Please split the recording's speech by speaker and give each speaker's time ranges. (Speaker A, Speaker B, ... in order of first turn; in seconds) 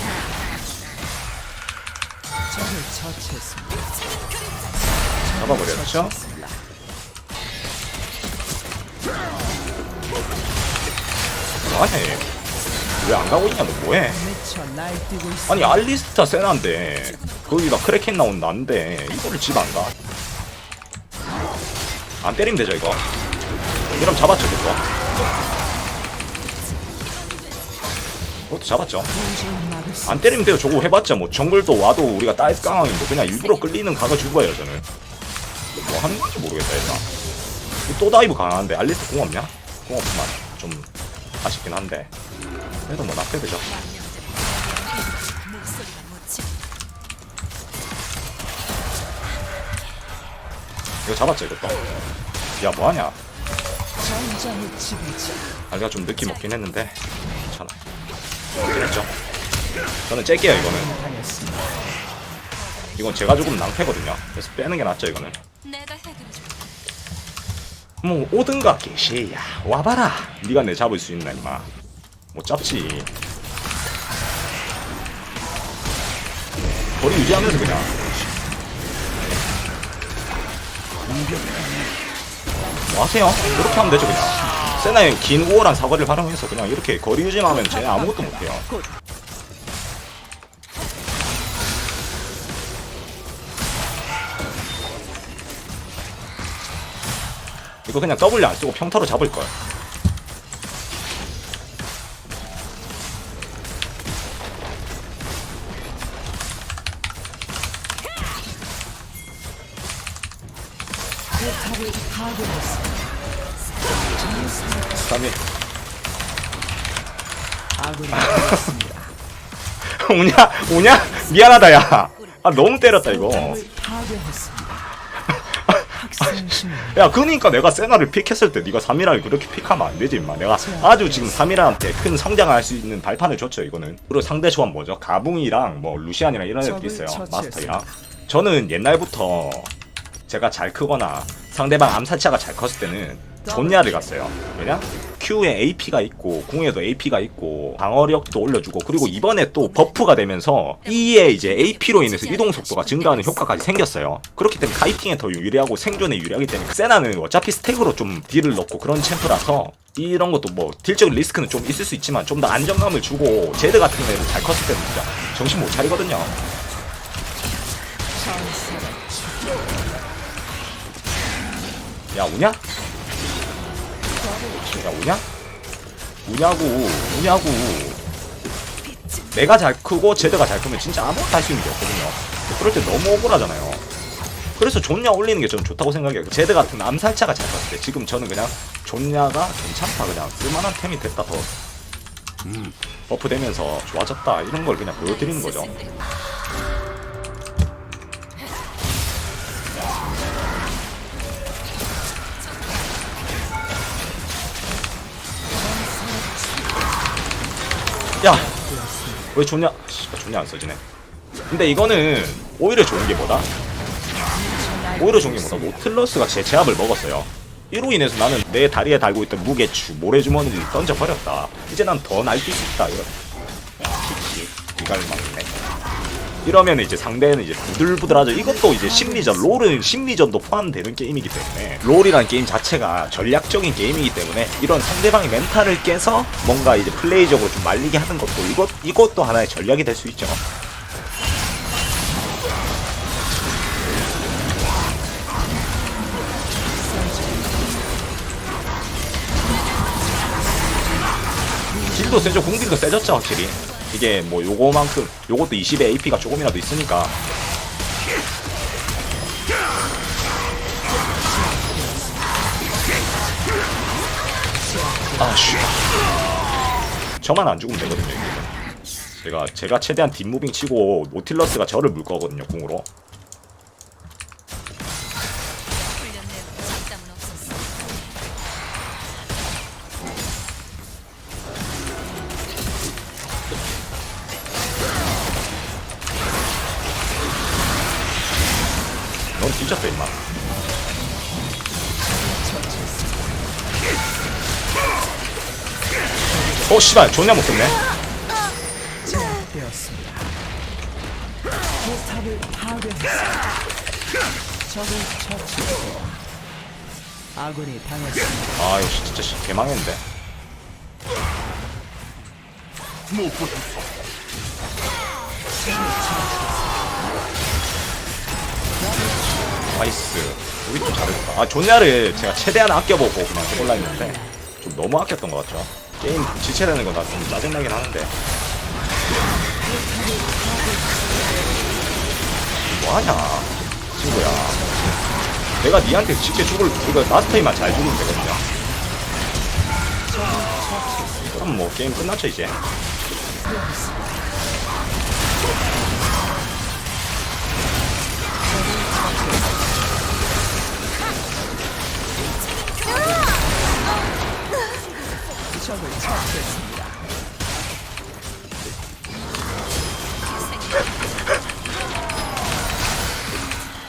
Speaker A: 2.6-3.8, 5.3-6.5, 14.2-15.5, 29.2-30.0, 54.0-55.4, 60.9-61.5, 111.6-112.7, 114.2-114.8, 117.8-119.0, 123.5-124.8, 126.1-126.9, 168.2-169.2, 174.3-174.7, 208.6-209.0, 214.5-215.7, 299.1-300.1, 302.1-303.3, 304.7-306.1, 307.4-308.4, 315.8-316.4, 319.0-319.2, 329.8-331.0, 340.3-341.1, 343.5-343.9, 355.7-356.9
Speaker B: 5.3-6.2, 11.7-12.3, 13.0-14.3, 15.5-19.9, 22.2-23.0, 23.9-24.8, 28.5-29.1, 30.0-34.9, 35.8-37.1, 37.9-40.9, 41.4-42.1, 42.9-43.6, 51.0-51.8, 52.6-53.2, 55.7-57.8, 58.7-59.1, 60.1-61.0, 63.0-65.4, 68.0-71.7, 72.3-73.1, 77.0-77.9, 82.9-88.7, 97.9-99.5, 115.0-115.4, 118.1-118.8, 119.8-123.6, 125.3-139.7, 140.3-166.3, 172.1-172.6, 174.6-175.3, 176.2-178.0, 179.3-183.8, 184.6-191.5, 193.1-195.7, 208.2-208.6, 209.3-210.8, 211.5-213.5, 215.0-223.2, 223.8-225.6, 226.4-240.4, 251.9-257.1, 265.2-265.8, 267.2-268.5, 269.2-272.9, 289.4-290.2, 296.6-297.8, 308.6-310.0, 319.7-328.1, 332.7-334.7, 335.6-338.4, 341.3-342.6
Speaker C: 17.0-17.8, 26.7-27.8, 32.4-33.9, 43.6-46.6, 56.1-57.1, 61.8-63.7, 65.6-66.7, 113.8-114.3, 120.8-123.6, 148.9-150.0, 150.8-153.5, 195.0-196.1, 202.4-203.0, 252.8-254.2, 261.7-263.0, 275.9-277.8, 360.4-361.3